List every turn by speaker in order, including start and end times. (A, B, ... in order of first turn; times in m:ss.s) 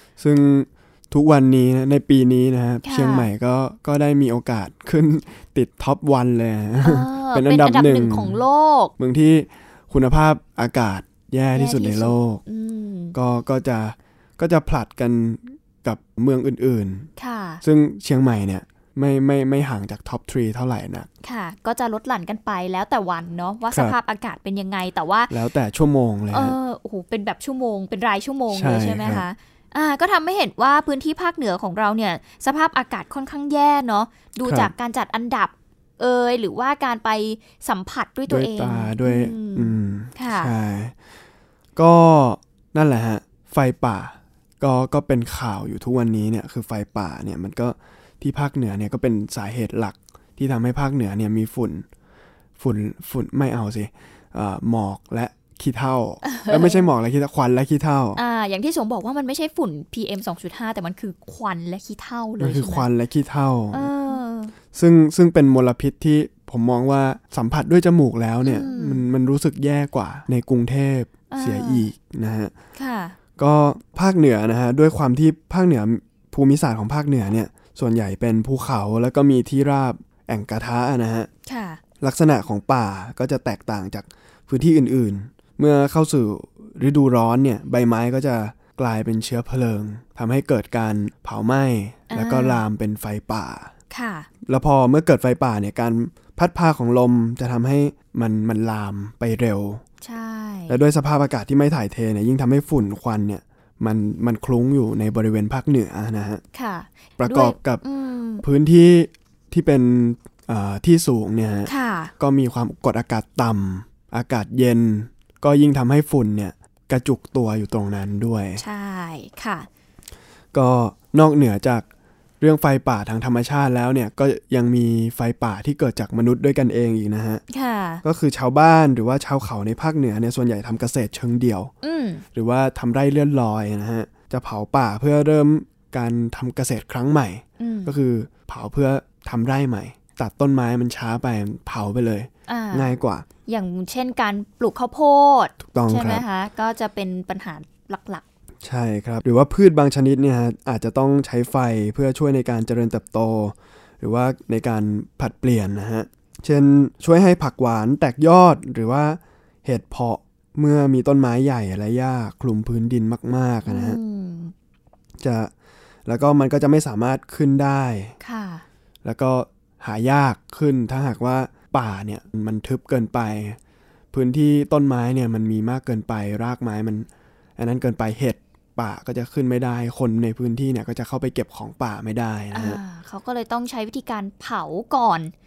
0:00.2-0:08.4 A
0:02.8-0:03.3 B
0:06.8-0:08.9 B
0:09.0-0:12.4 A
0:11.5-0:13.2 B
0:13.1-0:17.1 A
0:17.2-0:17.6 B
0:17.6-0:21.1 A
0:21.2-0:25.3 B
0:23.7-0:24.0 A
0:25.3-0:26.6 A
0:26.3-0:40.5 B
0:28.5-0:29.3 A
0:34.4-0:34.7 A
0:38.3-0:41.0 A
0:41.8-0:51.8 A
0:52.6-0:58.2 A
0:56.2-0:56.9 B
0:58.1-1:02.9 B
1:02.4-1:03.9 A
1:03.7-1:04.5 B
1:04.7-1:12.5 A
1:08.4-1:09.0 B
1:11.3-1:11.9 B
1:12.8-1:13.2 B
1:13.4-1:21.3 A
1:21.4-1:21.8 B
1:22.0-1:33.7 A
1:32.1-1:32.6 B
1:33.9-1:34.3 B
1:34.4-1:39.8 A
1:40.0-1:40.8 B
1:40.7-1:46.4 A
1:46.5-1:48.4 B
1:47.2-1:47.8 A
1:48.4-1:58.6 A
1:51.6-1:52.1 B
1:58.6-1:59.7 B
2:00.5-2:01.8 A
2:02.4-2:07.4 A
2:07.5-2:08.0 B
2:08.0-2:11.7 A
2:11.8-2:12.2 B
2:12.3-2:23.2 A
2:17.6-2:17.9 B
2:22.5-2:22.9 B
2:23.5-2:28.2 B
2:25.6-2:26.2 A
2:28.6-2:44.0 A
2:43.7-2:44.5 B
2:45.2-2:45.5 A
2:46.0-2:48.2 A
2:48.2-2:48.6 B
2:49.0-2:53.6 A
2:54.1-3:02.8 A
3:02.5-3:05.3 B